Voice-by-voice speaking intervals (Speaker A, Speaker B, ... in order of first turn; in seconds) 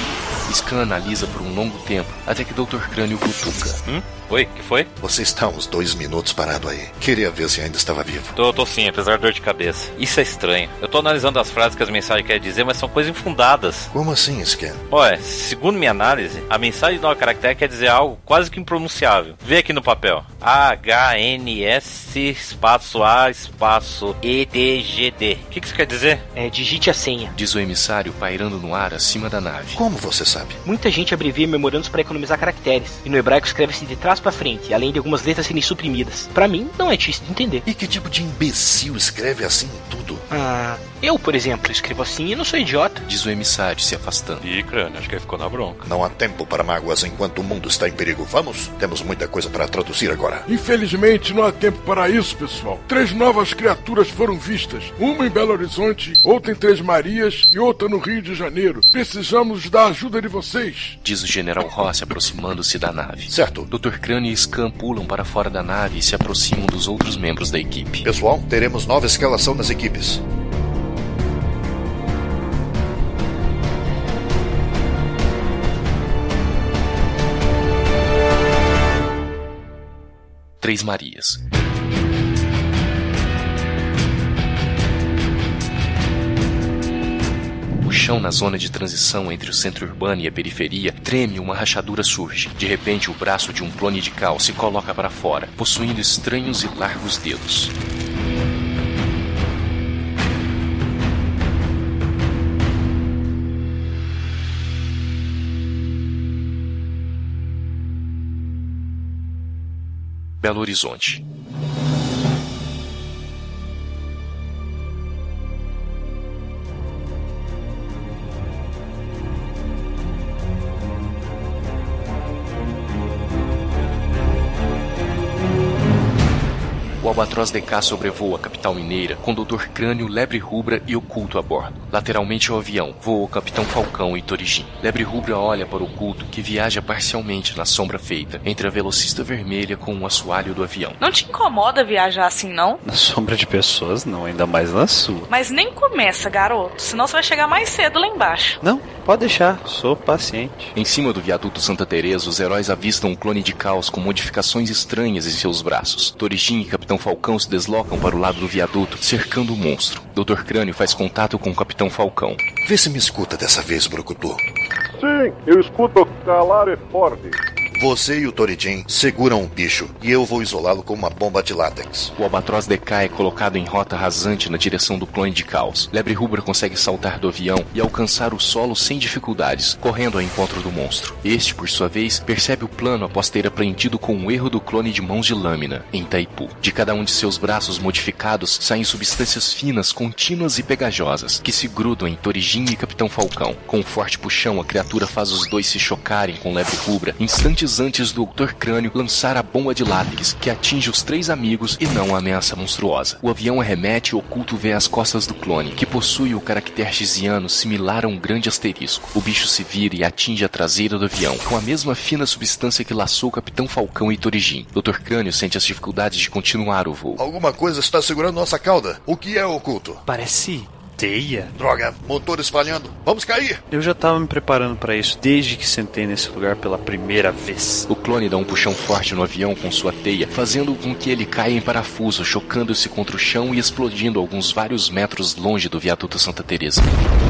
Speaker A: 0.5-3.8, 27.3-29.8, 43.0-44.5, 61.0-68.0, 80.6-81.4, 87.8-97.7, 110.4-111.2, 127.0-141.0, 150.7-162.4, 172.2-217.2, 227.9-236.9
Speaker B: 3.9-4.9, 8.4-13.9, 14.9-26.2, 44.4-45.8
Speaker C: 5.0-8.3, 13.9-14.8, 29.8-30.6, 37.6-40.2, 45.8-50.5, 63.3-63.7, 68.0-70.2, 162.6-164.4, 167.8-172.1, 217.2-220.0, 221.6-223.6
Speaker D: 26.3-27.3, 30.6-37.6, 40.3-43.0
Speaker E: 50.5-61.0
Speaker F: 141.0-142.8, 145.3-148.6
Speaker G: 142.8-145.3, 148.6-150.7, 220.1-221.5, 223.7-227.9
Speaker H: 164.9-167.4